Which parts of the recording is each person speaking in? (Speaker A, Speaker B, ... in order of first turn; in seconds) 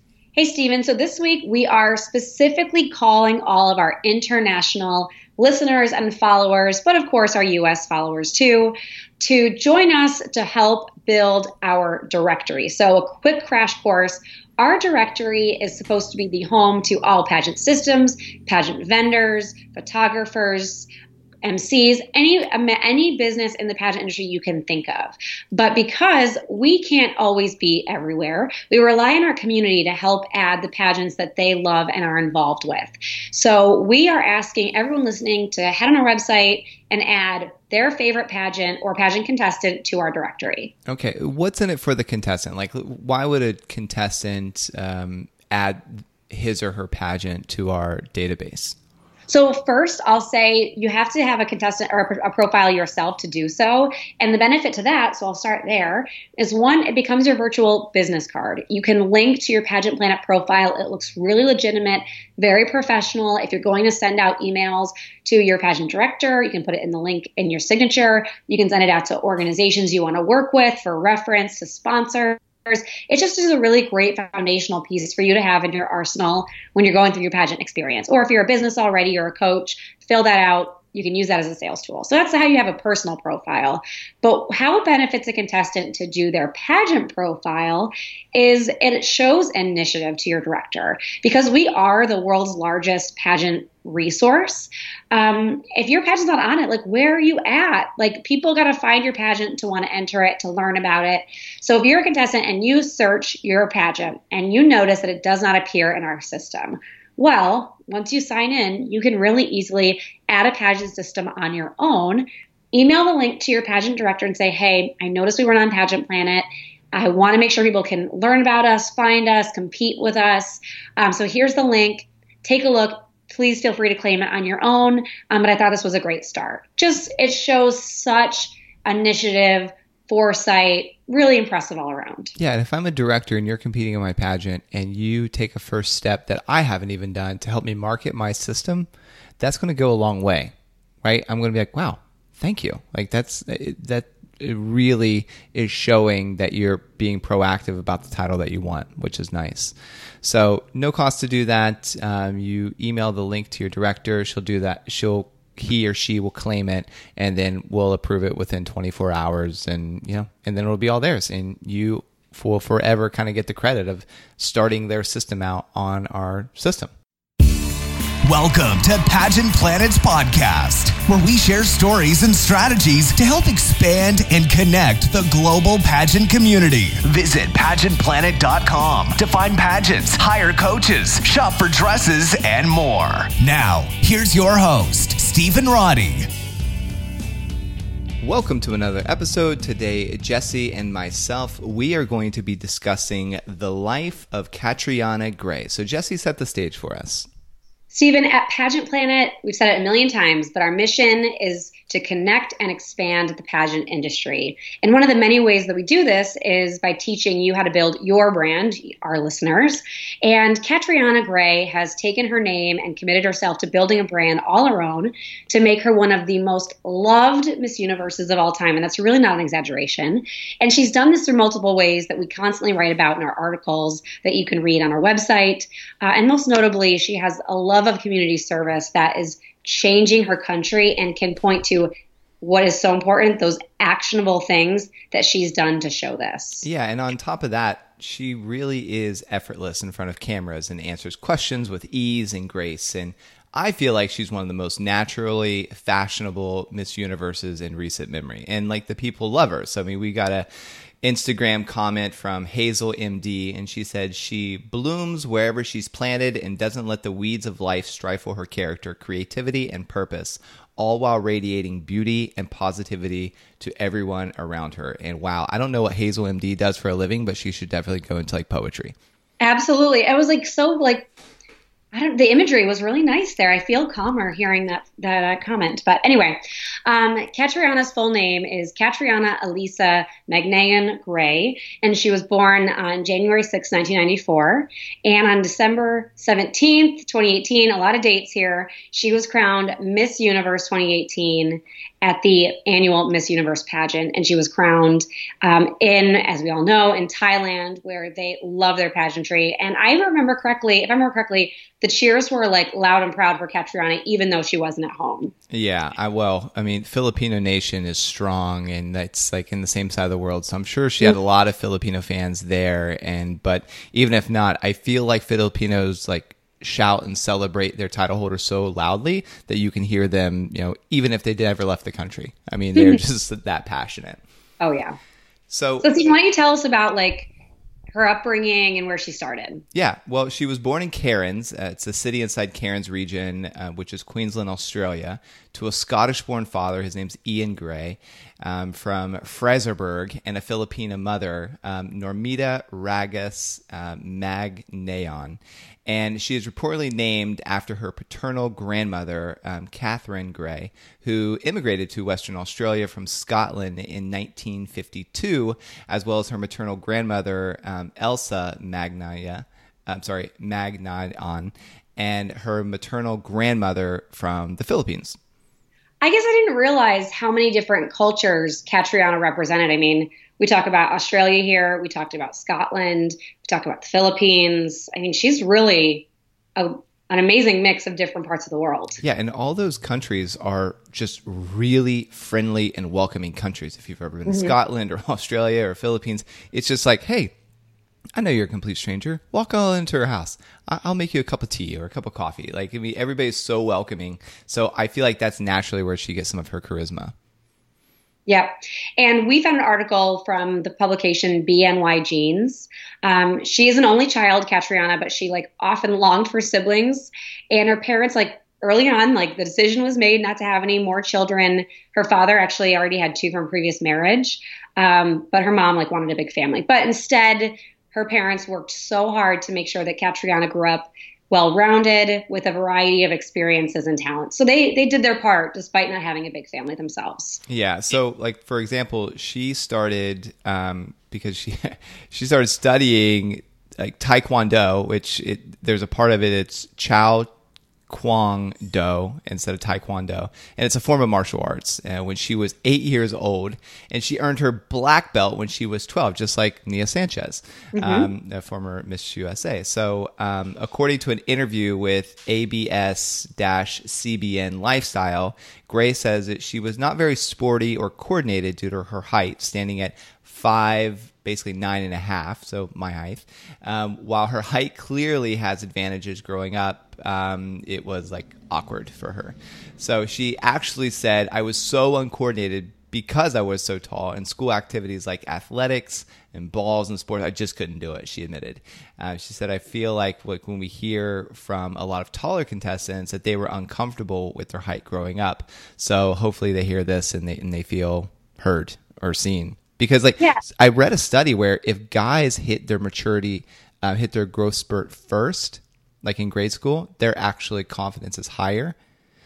Speaker A: 0.3-20.9, 21.4-40.7, 49.3-132.3, 197.9-236.7, 269.4-271.1, 271.9-305.3, 324.6-325.0, 325.8-327.3, 327.9-329.6, 366.0-379.0, 384.2-384.5, 398.3-427.4, 447.8-448.1
Speaker B: 40.9-48.8, 132.3-138.9, 139.4-140.5, 141.0-166.9, 188.2-197.3, 236.6-250.5, 251.0-268.9, 305.5-324.2, 325.5-325.9, 329.7-365.2, 379.0-387.3, 388.1-397.1, 427.5-437.3, 437.9-498.8
Speaker C: 168.2-186.3